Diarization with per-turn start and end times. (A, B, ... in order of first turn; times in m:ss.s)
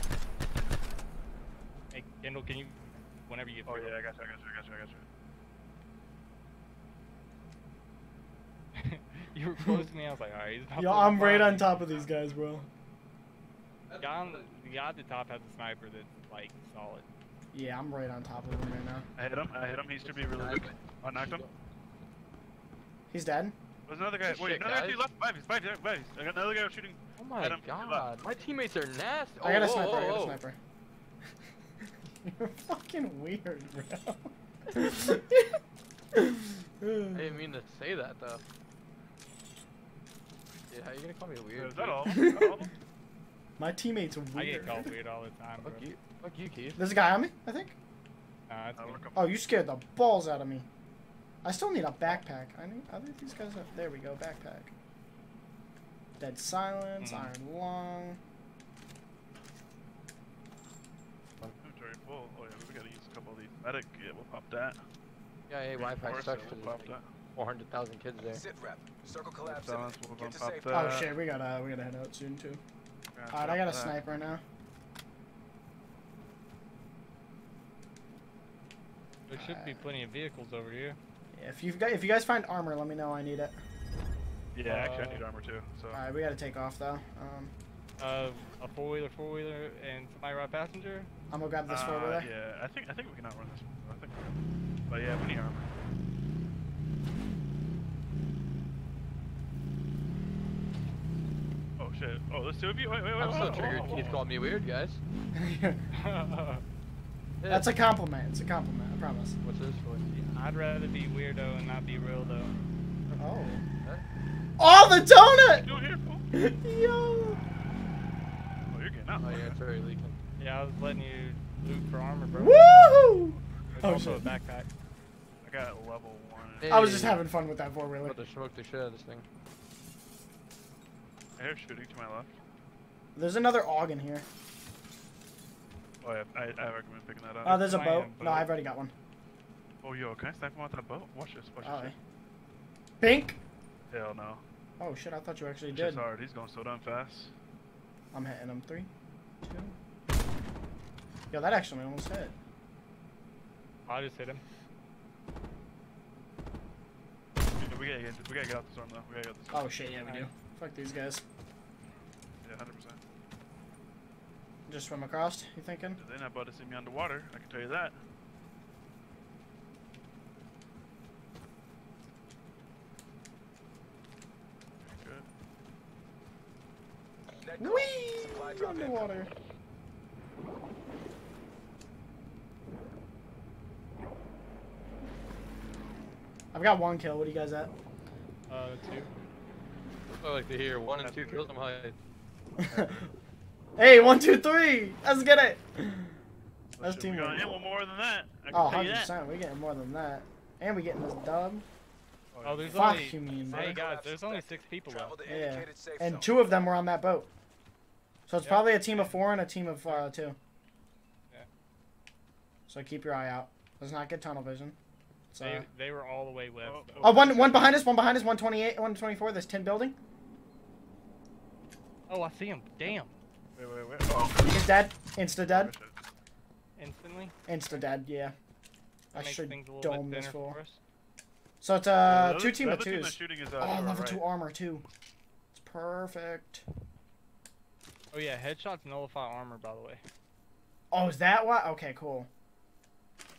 0:01.9-0:04.0 A
0:03.6-0:05.0 B
0:08.8-0:11.7 A
0:10.8-0:12.7 C
0:13.9-0:14.6 D
0:14.0-0:17.1 A
0:17.5-0:19.1 C
0:19.2-0:21.5 B
0:20.0-0:21.5 D
0:23.1-0:23.6 C
0:23.9-0:28.3 B
0:24.2-0:25.0 D
0:27.2-0:30.4 D
0:29.4-0:30.6 C
0:31.8-0:35.6 C
0:36.1-0:37.4 C
0:37.1-0:38.4 D
0:40.7-0:42.0 D
0:41.5-0:42.7 B
0:42.1-0:42.6 C
0:43.6-0:44.9 C
0:44.3-0:45.9 A
0:45.6-0:46.8 D
0:46.8-0:47.8 C
0:48.5-0:49.0 A
0:48.7-0:49.3 B
0:49.1-0:50.7 C
0:51.4-0:54.7 C
0:56.2-0:58.2 C
0:57.0-0:57.3 A
1:01.6-1:04.8 B
1:05.5-1:08.4 D
1:05.8-1:07.1 B
1:08.2-1:11.0 E
1:09.4-1:11.1 B
1:10.7-1:12.6 C
1:13.1-1:14.0 B
1:13.3-1:14.4 C
1:19.3-1:21.0 A
1:19.3-1:19.9 C
1:21.3-1:23.6 C
1:24.5-1:26.0 B
1:24.6-1:25.2 A
1:25.9-1:27.5 C
1:28.0-1:31.1 A
1:31.3-1:32.3 C
1:31.7-1:34.4 B
1:34.9-1:35.7 B
1:41.8-1:44.2 B
1:43.2-1:45.0 D
1:45.3-1:45.8 C
1:46.0-1:46.6 A
1:47.4-1:47.7 D
1:47.5-1:49.3 C
1:49.4-1:50.0 D
1:50.1-1:52.5 A
1:53.2-1:53.6 C
1:54.6-1:55.7 C
1:55.4-1:56.2 B
1:56.3-1:57.4 C
1:58.7-1:59.6 B
1:59.2-2:00.2 D
2:00.4-2:02.6 A
2:02.3-2:04.3 C
2:03.7-2:04.7 A
2:05.4-2:07.0 B
2:06.6-2:07.2 D
2:06.6-2:08.2 C
2:08.0-2:09.2 D
2:11.4-2:12.3 B
2:13.2-2:14.2 C
2:16.0-2:17.6 B
2:17.4-2:18.9 C
2:17.4-2:18.4 A
2:18.2-2:18.5 B
2:19.8-2:21.9 B
2:21.6-2:22.0 C
2:23.0-2:23.4 C
2:23.9-2:24.4 B
2:24.8-2:26.0 C
2:25.7-2:27.3 B
2:28.1-2:28.9 C
2:29.4-2:29.7 C
2:31.3-2:32.3 C
2:33.9-2:34.4 A
2:37.6-2:39.7 B
2:39.5-2:41.2 C
2:42.4-2:43.0 B
2:44.7-2:46.0 C
2:46.0-2:48.0 B
2:54.8-2:55.2 B
2:57.4-2:59.2 E
2:57.6-2:59.3 C
3:06.5-3:07.7 C
3:08.5-3:09.1 A
3:10.1-3:12.0 D
3:11.0-3:11.5 B
3:12.6-3:13.0 C
3:12.7-3:13.0 B
3:13.8-3:16.2 C
3:16.7-3:19.1 B
3:16.8-3:17.7 C
3:18.5-3:21.6 C
3:22.3-3:23.1 B
3:22.4-3:25.2 A
3:22.7-3:23.8 C
3:23.4-3:26.6 E
3:25.2-3:27.3 C
3:28.3-3:30.4 C
3:28.4-3:29.1 A
3:32.7-3:34.8 C
3:35.3-3:35.7 C
3:35.4-3:37.4 A
3:36.6-3:37.8 B
3:37.0-3:40.0 C
3:42.1-3:43.2 A
3:43.6-3:44.5 B
3:44.4-3:45.7 C
3:45.4-3:45.9 B
3:46.8-3:47.3 A
3:47.5-3:48.3 C
3:49.1-3:50.6 C
3:49.1-3:50.8 A
3:51.6-3:54.9 C
3:52.0-3:54.2 B
3:55.5-3:56.6 C
3:58.1-4:00.0 A
4:00.9-4:02.3 C